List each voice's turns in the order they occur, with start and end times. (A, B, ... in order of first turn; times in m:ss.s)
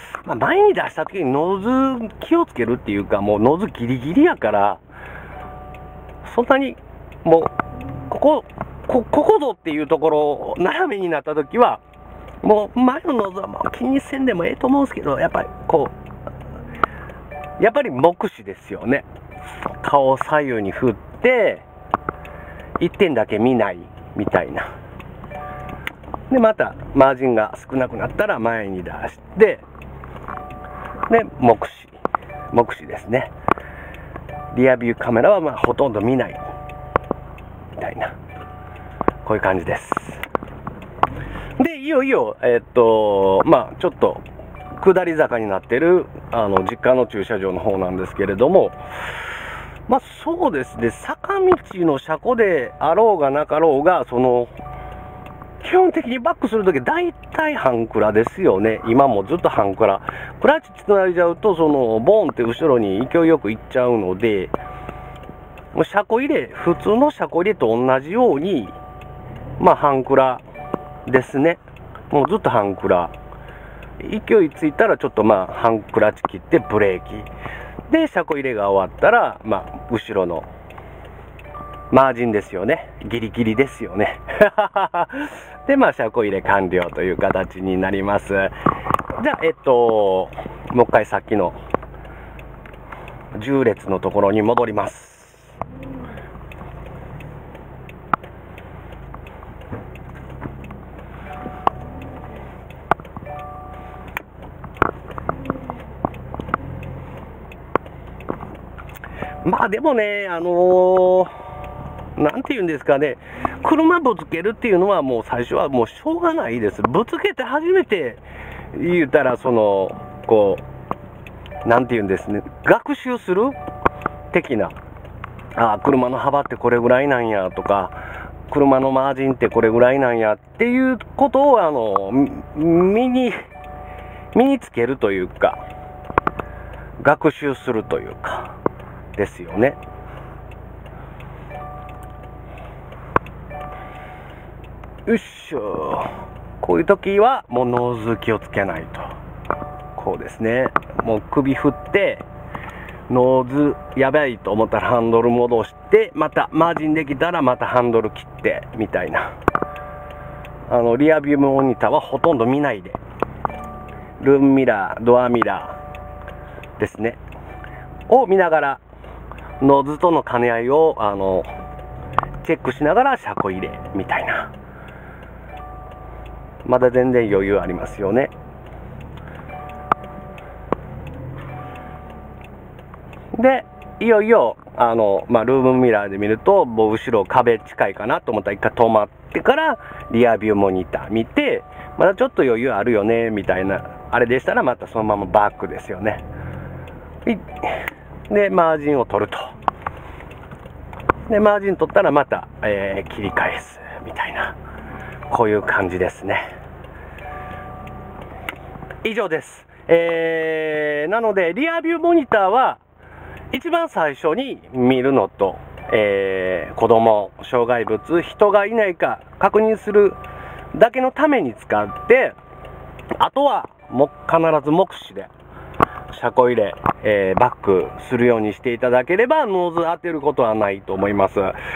0:00.2-0:04.8 A
0:06.2-0:07.5 A
0:08.1-0:11.8 A
0:12.4-0:15.9 A
0:17.6-0:19.0 A
0:19.8-0:21.6 A
0:22.8-0:24.7 A
0:26.3-0:29.6 A
0:31.1-0:31.9 A
0:32.5-0:33.3 A
0:34.5-0:36.4 A
0:37.8-0:38.2 A
0:39.2-0:40.2 A
0:41.6-0:44.2 A
0:44.8-0:48.8 A
0:49.9-0:54.5 A
0:55.6-1:04.5 A
1:05.7-1:08.8 A
1:09.6-1:10.4 A
1:11.0-1:13.1 A
1:14.0-1:17.3 A
1:17.9-1:20.5 A
1:21.9-1:28.5 A
1:29.2-1:31.6 A
1:33.3-1:35.6 A
1:49.4-1:51.3 A
1:52.2-2:00.6 A
2:01.6-2:03.6 A
2:04.3-2:04.7 A
2:05.5-2:07.9 A
2:08.5-2:13.4 A
2:14.3-2:15.6 A
2:17.0-2:18.5 A
2:19.1-2:19.8 A
2:25.0-2:29.0 A
2:30.0-2:32.2 A
2:33.1-2:39.3 A
2:40.7-2:43.0 A
2:44.2-2:45.8 A
2:46.8-2:47.2 A
2:48.1-2:48.8 A
2:49.6-2:51.5 A
2:52.4-2:54.5 A
2:56.6-2:58.3 A
3:03.3-3:16.2 A
3:17.2-3:17.8 A
3:18.3-3:19.5 A
3:21.3-3:24.6 A
3:25.3-3:26.4 A
3:29.0-3:32.8 A
3:33.5-3:40.2 A
3:40.7-3:42.4 A
3:43.2-3:45.3 A
3:46.1-3:51.6 A